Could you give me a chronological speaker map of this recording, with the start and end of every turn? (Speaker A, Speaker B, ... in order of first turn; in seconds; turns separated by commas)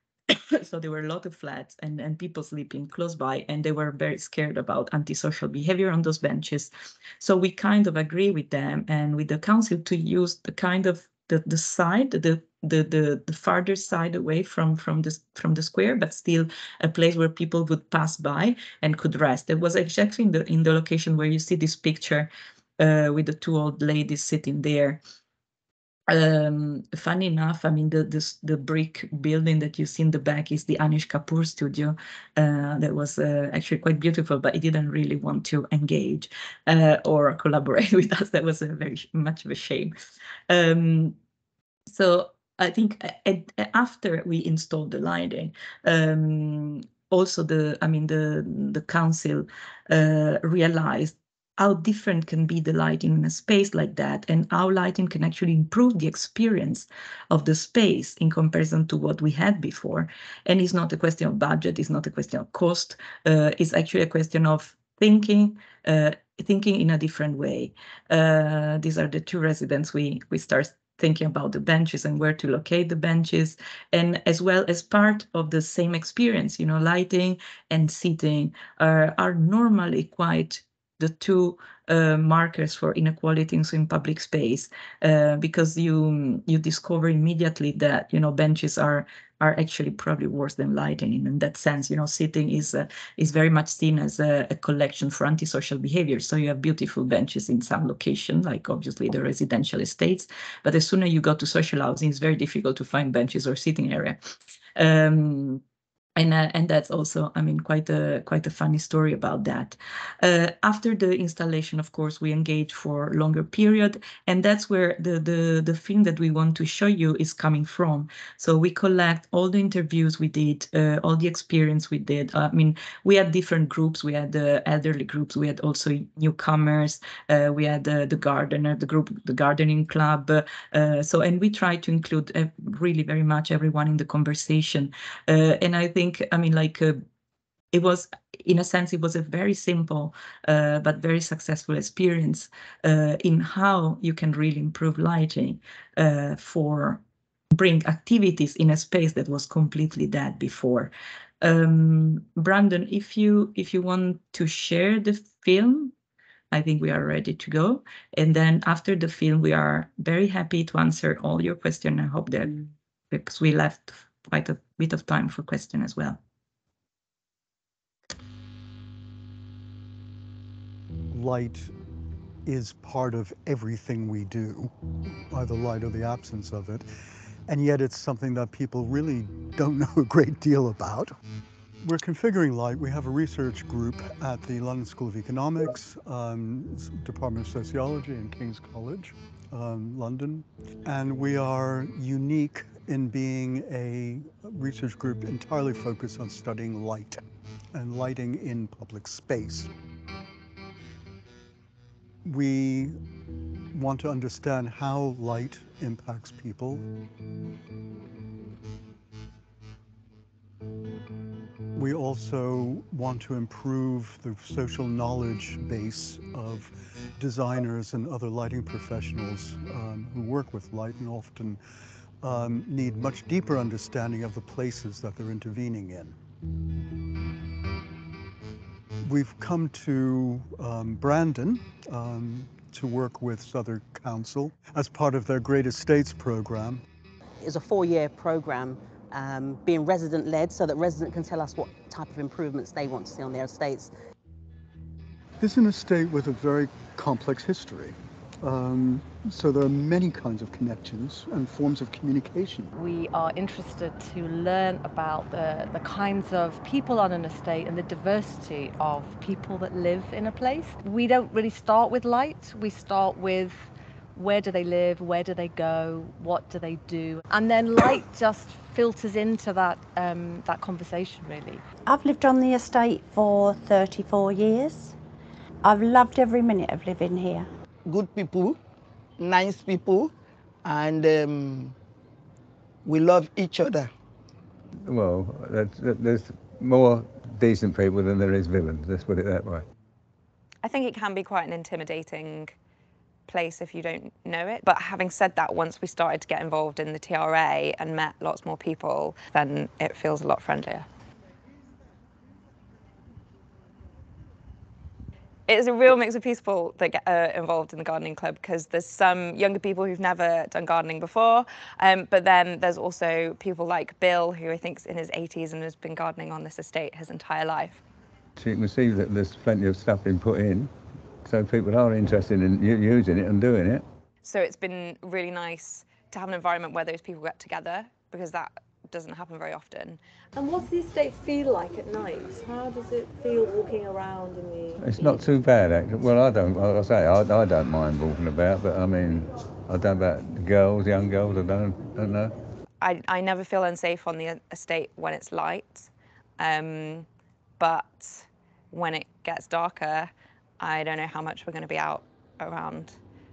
Speaker A: 0.3-25.0, Speaker A: 26.1-39.9, Speaker A: 40.5-41.1, Speaker A: 41.9-104.2, Speaker A: 104.8-105.6, Speaker A: 106.2-137.0, Speaker A: 137.7-147.0, Speaker A: 147.5-155.9, Speaker A: 156.5-166.2, Speaker B: 171.1-171.7, Speaker B: 172.4-174.7, Speaker B: 175.3-176.8, Speaker B: 177.5-181.1, Speaker B: 181.8-197.2, Speaker B: 197.7-199.7, Speaker B: 202.2-203.0, Speaker B: 203.7-206.8, Speaker B: 211.7-221.6, Speaker B: 222.2-226.2, Speaker B: 229.0-236.8, Speaker C: 237.4-243.9, Speaker B: 245.4-252.7, Speaker D: 252.7-271.6, Speaker E: 271.9-274.9, Speaker E: 275.6-277.5, Speaker F: 277.9-278.6, Speaker F: 279.2-280.1, Speaker F: 280.6-281.8, Speaker F: 282.8-283.9, Speaker G: 284.8-289.6, Speaker H: 290.6-292.6, Speaker H: 293.3-300.9, Speaker H: 305.5-317.8, Speaker G: 318.4-320.7, Speaker G: 321.2-323.8, Speaker H: 324.2-330.0, Speaker I: 330.3-335.2, Speaker G: 334.8-342.3, Speaker H: 342.8-347.1, Speaker H: 347.6-353.0